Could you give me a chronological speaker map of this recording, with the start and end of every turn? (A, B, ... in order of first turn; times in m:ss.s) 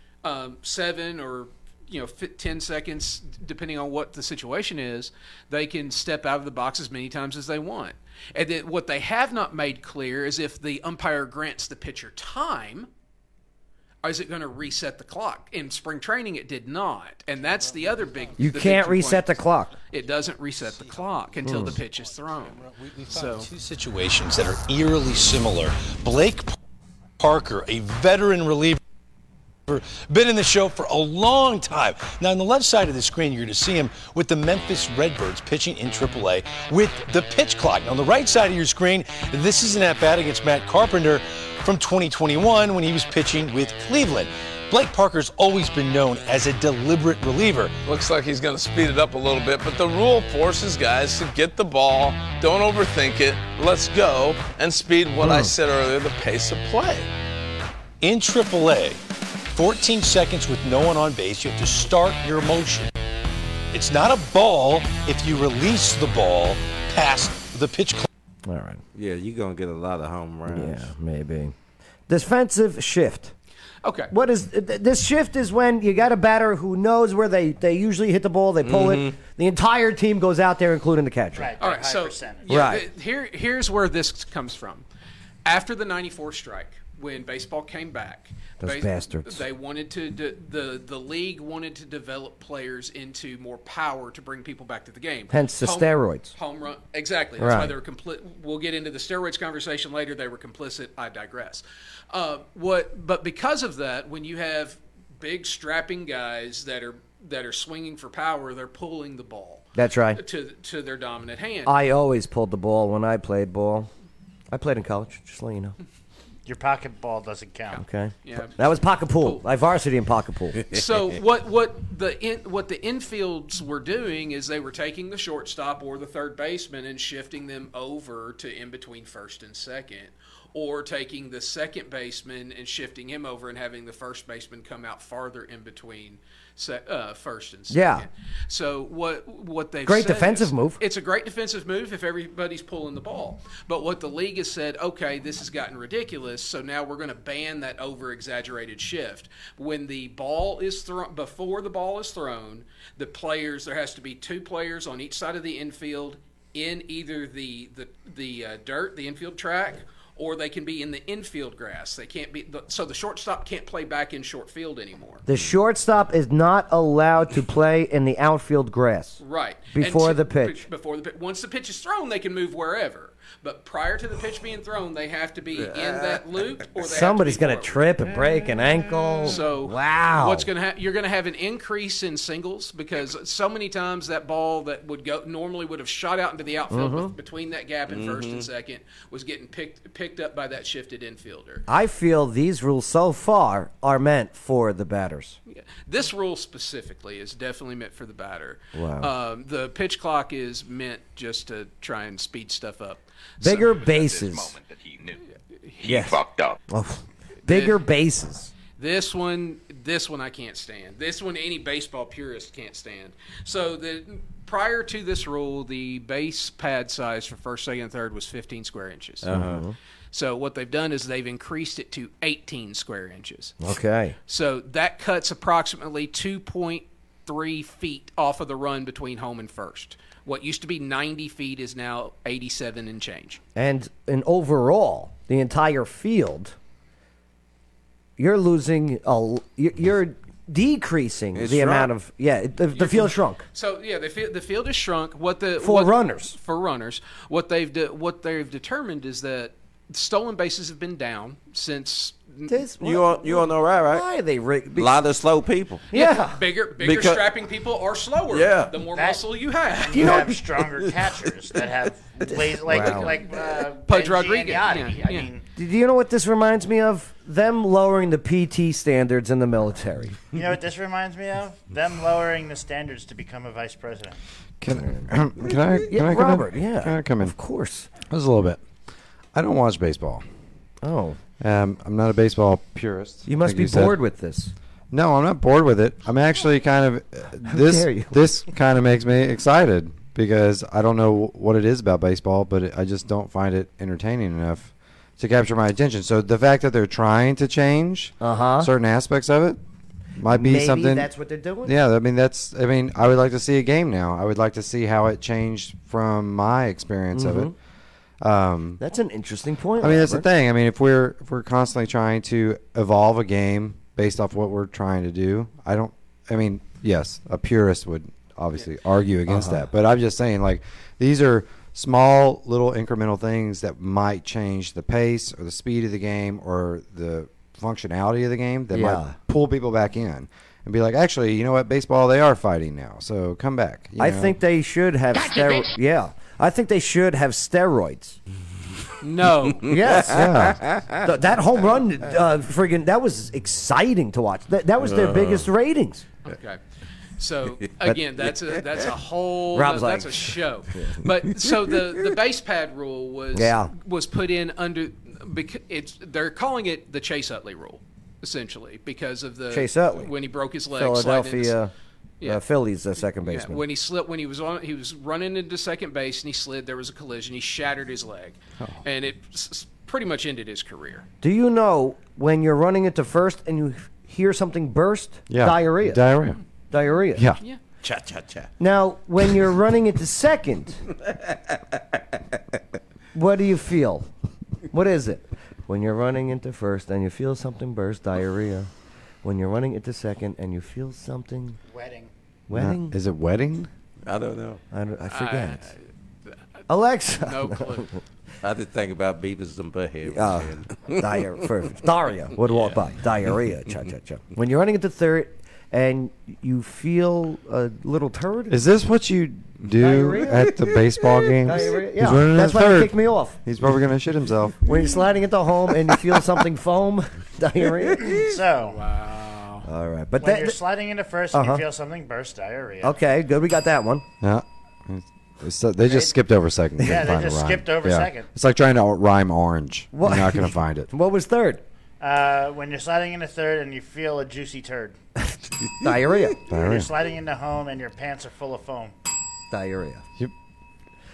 0:00.2-0:12.9 A
0:14.0-0:19.3 A
0:18.4-0:19.7 B
0:19.9-0:23.5 A
0:21.4-0:21.8 B
0:22.9-0:26.5 C
0:27.2-0:28.8 C
0:29.7-0:47.7 C
0:47.8-0:57.1 D
0:55.2-0:55.5 B
0:58.0-0:59.0 C
0:59.5-1:02.9 C
1:03.7-1:08.0 C
1:08.4-1:08.8 B
1:08.9-1:10.9 E
1:10.5-1:11.5 B
1:12.1-1:13.3 B
1:13.8-1:14.1 A
1:14.1-1:21.5 B
1:18.6-1:19.1 E
1:21.3-1:22.6 F
1:21.6-1:24.8 A
1:22.5-1:22.8 B
1:25.4-1:51.7 A
1:28.6-1:29.4 B
1:35.3-1:36.3 B
1:37.4-1:37.7 B
1:49.7-1:50.2 B
1:51.6-1:53.9 B
1:54.5-1:55.8 B
1:56.4-1:57.8 F
1:57.8-2:00.6 B
1:58.2-1:58.6 A
2:00.7-2:45.2 A
2:17.7-2:18.1 B
2:19.8-2:20.8 B
2:45.3-2:49.2 B
2:49.2-2:57.9 A
2:49.7-2:50.6 B
2:55.7-2:56.2 E
2:56.8-3:00.5 B
2:59.2-3:11.6 A
3:06.7-3:07.1 B
3:07.9-3:08.4 E
3:11.7-3:15.4 B
3:15.5-3:23.8 A
3:18.7-3:19.1 B
3:23.4-3:24.6 B
3:25.7-3:26.1 A
3:25.8-3:28.5 B
3:27.5-3:27.8 A
3:28.8-3:39.3 A
3:39.2-3:39.6 E
3:39.3-3:39.7 B
3:40.1-3:43.5 A
3:43.6-3:44.2 B
3:44.3-3:53.4 A
3:53.6-3:56.6 B
3:58.2-4:03.4 B
4:01.3-4:01.9 E
4:02.7-4:12.6 A
4:05.6-4:06.4 B
4:12.5-4:15.0 B
4:12.8-4:14.0 E
4:14.8-4:15.8 E
4:15.9-4:16.4 B
4:15.9-4:20.2 A
4:16.8-4:17.2 E
4:18.3-4:18.7 E
4:18.9-4:19.2 F
4:19.7-4:25.4 F
4:19.9-4:20.4 B
4:22.6-4:23.2 B
4:23.9-4:25.3 A
4:25.6-4:30.2 B
4:30.3-4:34.2 F
4:34.6-4:37.3 G
4:34.7-4:35.1 B
4:35.8-4:37.9 B
4:38.0-4:38.6 G
4:39.3-4:40.2 G
4:40.8-4:41.2 B
4:41.4-4:44.0 G
4:43.2-4:44.5 B
4:44.9-4:59.6 G
4:47.4-4:48.2 B
4:58.2-4:58.7 B
5:00.2-5:01.1 G
5:00.3-5:01.7 B
5:01.6-5:07.5 G
5:07.1-5:07.5 B
5:08.2-5:08.8 G
5:08.8-5:10.3 B
5:09.8-5:34.4 G
5:19.3-5:19.7 B
5:28.7-5:29.1 B
5:34.0-5:38.2 B
5:39.0-5:39.7 A
5:39.6-5:46.0 B
5:39.7-5:40.1 E
5:40.1-5:40.6 G
5:40.6-5:41.0 E
5:44.8-5:45.5 E
5:46.2-5:46.6 A
5:47.2-6:01.6 A
5:49.5-5:50.9 B
5:53.3-5:53.7 B
5:59.5-6:00.1 B
6:00.7-6:01.7 B
6:02.2-6:03.6 B
6:03.2-6:11.0 A
6:11.2-6:16.0 B
6:15.3-6:16.4 G
6:16.7-6:17.2 B
6:17.1-6:17.4 G
6:17.8-6:18.5 E
6:18.6-6:20.8 B
6:23.1-6:24.1 B
6:24.7-6:28.7 B
6:29.2-6:31.6 B
6:31.7-6:32.1 F
6:32.5-6:33.0 B
6:32.5-6:33.7 G
6:34.0-6:34.6 E
6:34.7-6:35.7 B
6:35.1-6:35.8 A
6:36.7-6:38.0 B
6:37.1-6:37.9 A
6:38.4-6:41.0 E
6:40.0-6:48.6 B
6:48.5-6:54.6 G
6:49.8-6:50.5 B
6:51.4-6:53.4 B
6:54.6-6:58.2 B
6:58.1-6:58.8 F
6:58.6-6:59.7 A
6:59.6-7:00.6 B
7:00.2-7:03.0 F
7:01.3-7:01.6 B
7:02.8-7:04.0 B
7:04.2-7:10.9 G
7:05.8-7:06.1 F
7:06.8-7:08.3 F
7:09.9-7:11.6 B
7:12.0-7:15.0 F
7:15.8-7:16.4 B
7:16.5-7:16.9 G
7:16.5-7:18.9 F
7:19.5-7:20.0 B